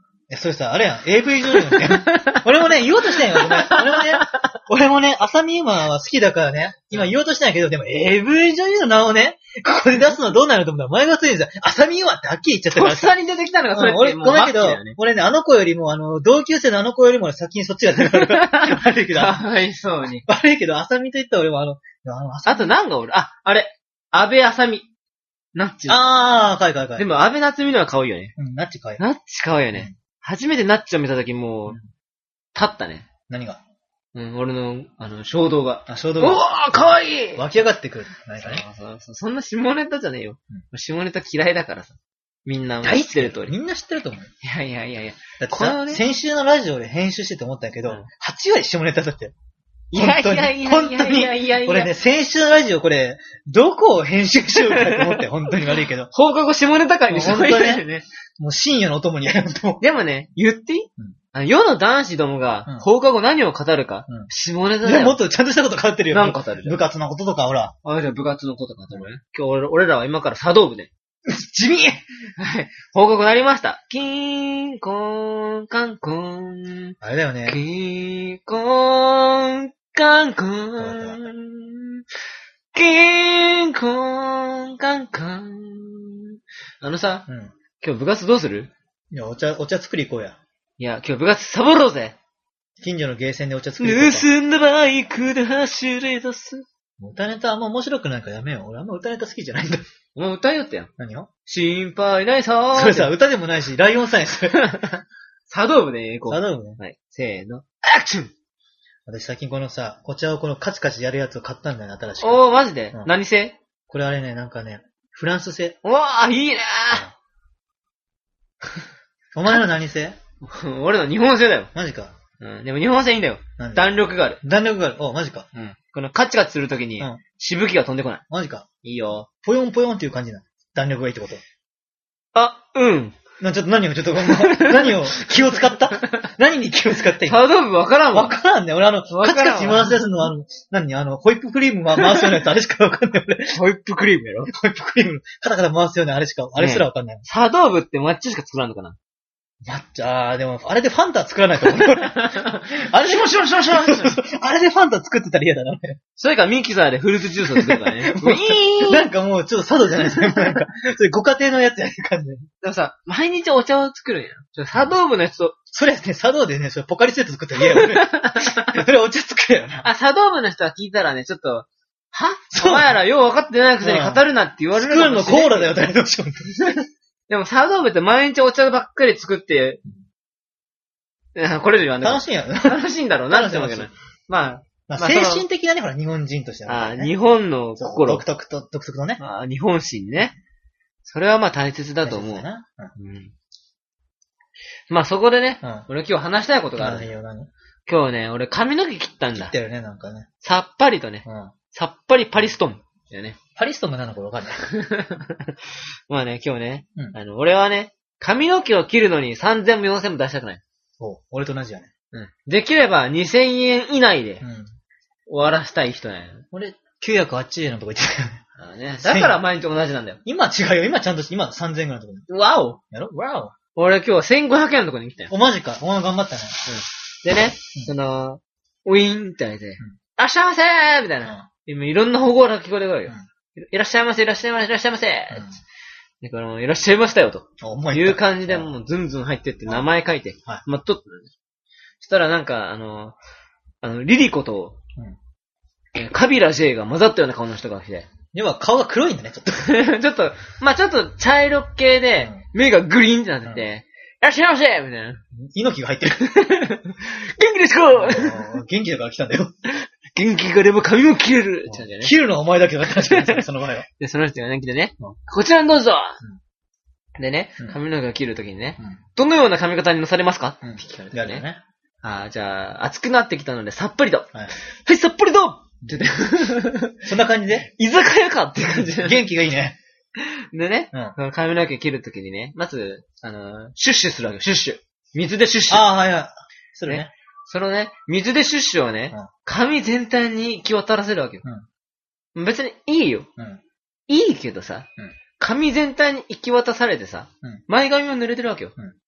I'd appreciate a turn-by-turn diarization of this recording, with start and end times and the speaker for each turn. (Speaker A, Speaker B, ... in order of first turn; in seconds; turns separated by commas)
Speaker A: 0.3-13.1, Speaker B: 1.5-2.5, Speaker B: 3.1-4.5, Speaker B: 12.7-15.0, Speaker A: 13.7-19.4, Speaker B: 18.0-20.2, Speaker A: 20.2-22.7, Speaker B: 22.4-24.9, Speaker B: 25.6-26.0, Speaker A: 25.9-27.1, Speaker B: 27.0-28.3, Speaker A: 28.4-29.0, Speaker B: 29.0-31.8, Speaker B: 32.5-33.1, Speaker A: 33.3-33.6, Speaker B: 34.1-37.4, Speaker A: 35.9-38.6, Speaker B: 38.4-43.5, Speaker A: 42.8-44.3, Speaker B: 44.4-46.0, Speaker A: 45.4-49.3, Speaker B: 49.9-51.9, Speaker A: 49.9-56.1, Speaker B: 54.6-55.2, Speaker B: 56.1-58.1, Speaker A: 57.1-57.9, Speaker A: 58.4-59.8, Speaker B: 59.8-65.2, Speaker A: 64.8-67.8, Speaker B: 66.1-66.8, Speaker B: 67.8-70.9, Speaker A: 71.2-72.0, Speaker B: 72.4-77.0, Speaker A: 77.0-77.6, Speaker B: 77.5-82.0, Speaker A: 80.8-81.3, Speaker B: 82.7-87.2, Speaker A: 87.3-87.5, Speaker B: 87.8-88.7, Speaker A: 89.1-90.4, Speaker B: 90.8-92.2, Speaker A: 92.8-94.2, Speaker B: 93.8-96.6, Speaker A: 97.0-99.8, Speaker B: 100.1-100.9, Speaker A: 101.0-101.3, Speaker B: 101.5-103.1, Speaker A: 102.8-104.6, Speaker B: 104.5-108.3, Speaker A: 106.3-106.8, Speaker A: 109.1-113.1, Speaker B: 112.2-113.6, Speaker A: 113.9-115.8, Speaker B: 115.8-117.1, Speaker A: 119.3-120.2, Speaker B: 120.4-121.7, Speaker A: 121.7-122.1, Speaker B: 122.4-124.4, Speaker A: 123.6-125.8, Speaker B: 125.8-128.2, Speaker A: 128.3-128.7, Speaker B: 128.8-129.3, Speaker A: 129.4-131.4, Speaker B: 132.3-133.2, Speaker A: 133.4-137.5, Speaker B: 134.2-135.2, Speaker B: 135.9-136.2, Speaker B: 137.2-138.4, Speaker A: 138.1-143.6, Speaker B: 139.1-140.0, Speaker B: 142.0-142.3, Speaker B: 143.5-144.5, Speaker A: 144.5-147.2, Speaker B: 146.6-149.0, Speaker A: 149.6-156.0, Speaker B: 151.7-154.2, Speaker B: 156.2-159.1, Speaker A: 157.5-162.4, Speaker B: 160.1-160.5, Speaker B: 162.6-165.6, Speaker A: 165.7-169.8, Speaker B: 167.6-168.8, Speaker B: 169.8-175.7, Speaker A: 172.5-172.9, Speaker A: 173.8-176.8, Speaker B: 176.6-179.8, Speaker B: 181.3-185.4, Speaker A: 182.0-183.9, Speaker A: 184.9-187.1, Speaker B: 186.7-188.2, Speaker A: 187.8-189.2, Speaker B: 189.2-190.3, Speaker B: 191.0-192.4, Speaker A: 192.0-192.9, Speaker B: 193.0-193.3, Speaker B: 194.9-197.1, Speaker A: 196.8-197.5, Speaker B: 197.9-199.5, Speaker A: 199.3-200.3, Speaker B: 200.4-203.4, Speaker A: 201.2-201.5, Speaker A: 203.6-204.7, Speaker B: 204.6-205.6, Speaker B: 206.1-210.6, Speaker A: 211.0-211.9, Speaker B: 212.1-214.4, Speaker A: 214.4-214.7, Speaker B: 215.3-216.4, Speaker A: 216.5-218.4, Speaker B: 218.6-220.2, Speaker A: 219.0-219.4, Speaker A: 220.2-222.3, Speaker B: 222.3-222.8, Speaker A: 222.9-223.5, Speaker B: 223.8-225.3, Speaker A: 225.3-226.6, Speaker B: 226.7-235.5, Speaker B: 236.2-241.3, Speaker A: 237.6-238.7, Speaker B: 242.0-243.2, Speaker B: 243.8-244.8, Speaker B: 245.9-248.1, Speaker A: 248.3-249.8, Speaker B: 249.6-255.2, Speaker A: 255.3-256.3, Speaker B: 256.2-258.5, Speaker A: 257.9-259.5, Speaker B: 259.7-262.1, Speaker A: 261.7-263.9, Speaker B: 262.9-263.5, Speaker B: 264.0-266.2, Speaker B: 267.2-271.4, Speaker A: 270.6-271.6, Speaker B: 272.0-277.0, Speaker A: 277.0-277.7, Speaker B: 277.6-279.2, Speaker A: 278.7-279.8, Speaker B: 280.2-285.9, Speaker A: 285.7-287.1, Speaker B: 286.9-291.4, Speaker B: 292.4-293.3, Speaker B: 294.1-294.9, Speaker B: 295.4-298.8